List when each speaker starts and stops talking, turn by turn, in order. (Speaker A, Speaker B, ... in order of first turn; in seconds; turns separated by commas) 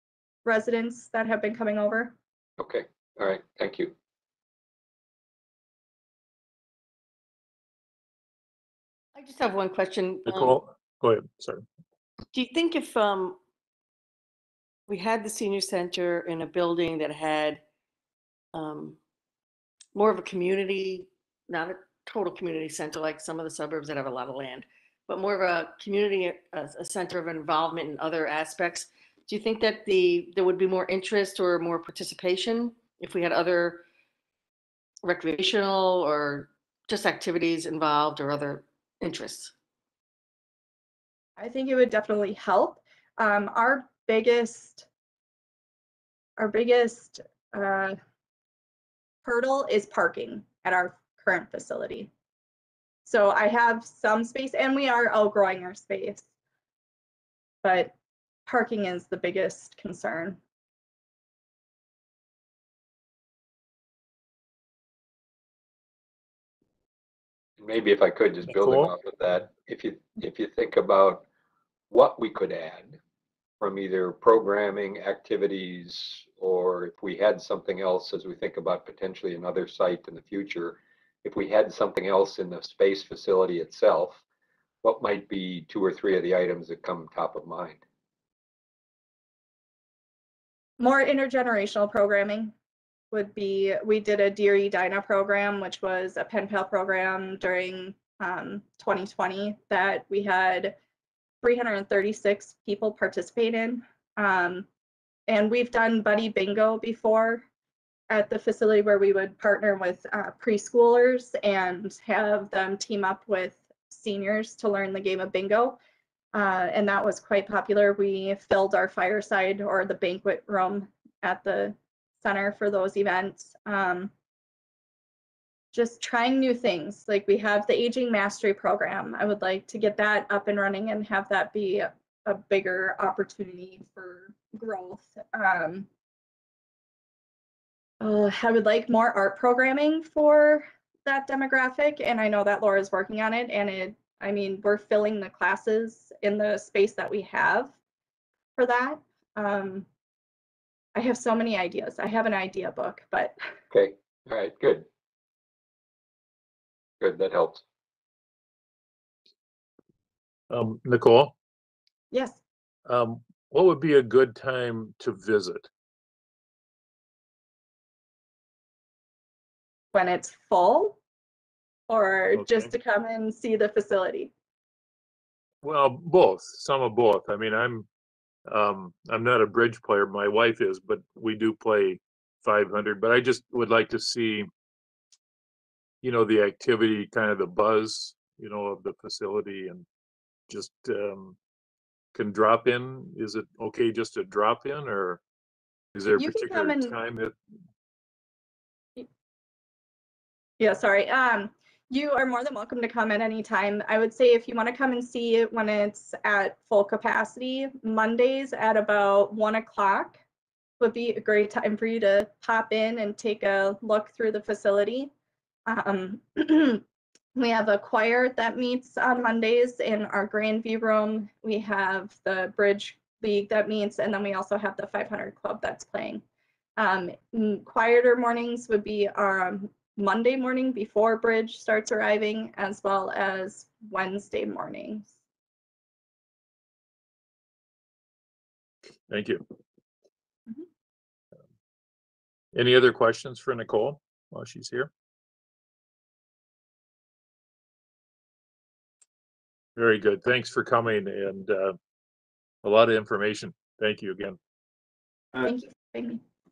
Speaker A: 0.4-2.1, Speaker B: 2.6-3.9, Speaker C: 9.1-10.6, Speaker D: 10.2-11.6, Speaker C: 12.3-13.4, Speaker C: 14.9-17.6, Speaker C: 18.5-19.0, Speaker C: 19.9-33.8, Speaker C: 35.0-39.5, Speaker A: 41.4-44.9, Speaker A: 46.4-48.0, Speaker A: 49.2-52.1, Speaker A: 53.0-56.3, Speaker A: 57.6-57.9, Speaker A: 58.5-60.4, Speaker B: 67.6-71.2, Speaker D: 68.5-68.9, Speaker B: 71.9-73.0, Speaker B: 73.6-84.2, Speaker B: 84.8-87.8, Speaker A: 90.8-92.5, Speaker A: 93.1-100.8, Speaker A: 101.4-104.7, Speaker A: 105.3-107.4, Speaker A: 108.1-115.8, Speaker A: 116.3-124.1, Speaker A: 125.7-135.9, Speaker A: 138.0-147.7, Speaker A: 148.6-149.8, Speaker A: 150.9-153.3, Speaker B: 153.7-154.8, Speaker B: 157.0-157.6, Speaker D: 160.5-161.3, Speaker A: 162.1-162.4, Speaker D: 162.9-165.7, Speaker A: 169.9-171.0, Speaker A: 171.9-174.3, Speaker D: 172.3-172.7, Speaker D: 175.6-177.9, Speaker D: 178.5-184.5, Speaker D: 186.0-189.8, Speaker D: 190.5-191.3, Speaker D: 192.1-195.2, Speaker D: 195.9-197.3, Speaker A: 196.2-196.9, Speaker A: 200.6-210.2, Speaker A: 210.8-215.1, Speaker A: 215.7-216.8, Speaker A: 217.3-226.2, Speaker A: 226.8-235.1, Speaker D: 239.1-239.4, Speaker D: 242.5-244.9, Speaker D: 249.8-251.8, Speaker D: 252.6-254.4, Speaker A: 255.4-256.2